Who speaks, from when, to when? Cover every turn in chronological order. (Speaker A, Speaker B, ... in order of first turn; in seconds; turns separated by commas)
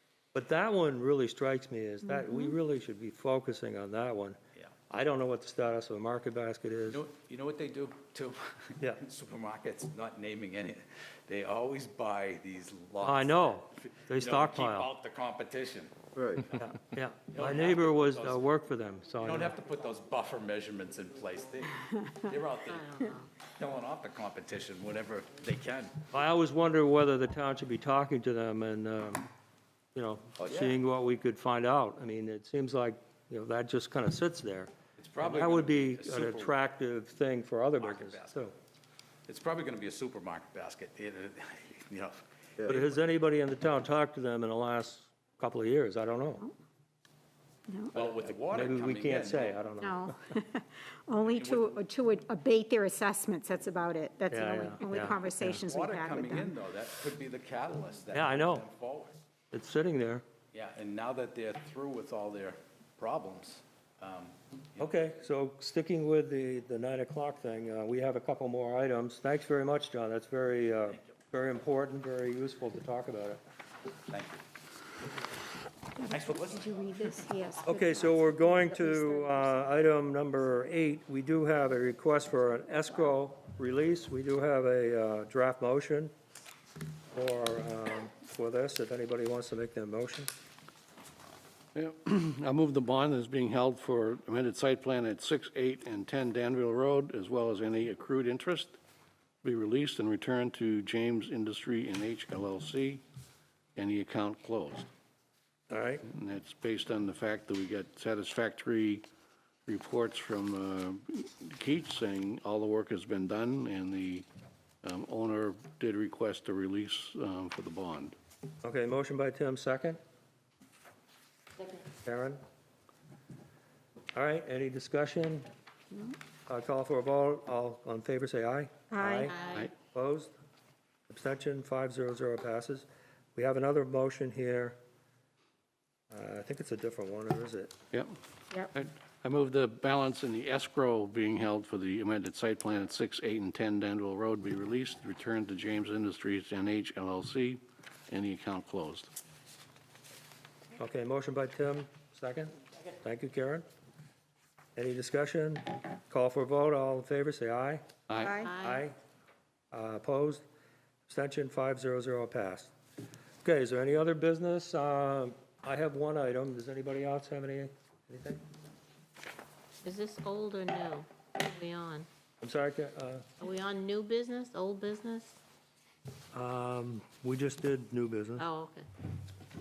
Speaker A: 0.3-4.4, Speaker A: 4.9-7.0, Speaker B: 6.9-18.4, Speaker A: 13.0-14.9, Speaker A: 16.6-19.5, Speaker B: 19.2-26.0, Speaker C: 22.7-23.3, Speaker A: 26.1-29.3, Speaker A: 29.9-34.7, Speaker B: 30.4-30.7, Speaker B: 35.0-36.5, Speaker A: 35.2-38.5, Speaker B: 37.8-38.5, Speaker B: 39.3-42.9, Speaker A: 42.6-46.5, Speaker B: 47.9-49.7, Speaker A: 48.0-50.1, Speaker D: 49.8-56.5, Speaker B: 51.3-51.8, Speaker A: 54.3-55.6, Speaker B: 55.5-59.1, Speaker A: 58.1-58.6, Speaker A: 59.5-60.2, Speaker B: 60.5-64.9, Speaker A: 64.8-73.4, Speaker B: 74.1-74.4, Speaker B: 76.0-77.2, Speaker D: 76.8-79.8, Speaker A: 77.6-86.1, Speaker A: 87.1-90.3, Speaker E: 91.7-98.8, Speaker E: 99.4-103.0, Speaker E: 103.8-104.9, Speaker A: 105.7-106.0, Speaker E: 106.1-109.0, Speaker E: 109.7-114.3, Speaker E: 114.8-118.1, Speaker A: 118.6-120.0, Speaker A: 122.0-122.4, Speaker A: 124.1-125.5, Speaker A: 126.5-130.3, Speaker D: 128.9-129.3, Speaker C: 129.3-129.7, Speaker A: 131.1-134.8, Speaker A: 136.1-137.7, Speaker E: 138.7-149.1, Speaker A: 150.8-153.7, Speaker A: 154.8-157.8, Speaker E: 158.1-158.4, Speaker D: 158.2-158.5, Speaker C: 158.3-158.8, Speaker A: 158.6-158.9, Speaker A: 159.7-160.4, Speaker A: 161.1-162.7, Speaker A: 163.4-168.4, Speaker C: 169.8-172.1, Speaker A: 172.4-173.2, Speaker C: 173.4-175.4, Speaker A: 176.3-178.4, Speaker C: 178.4-178.9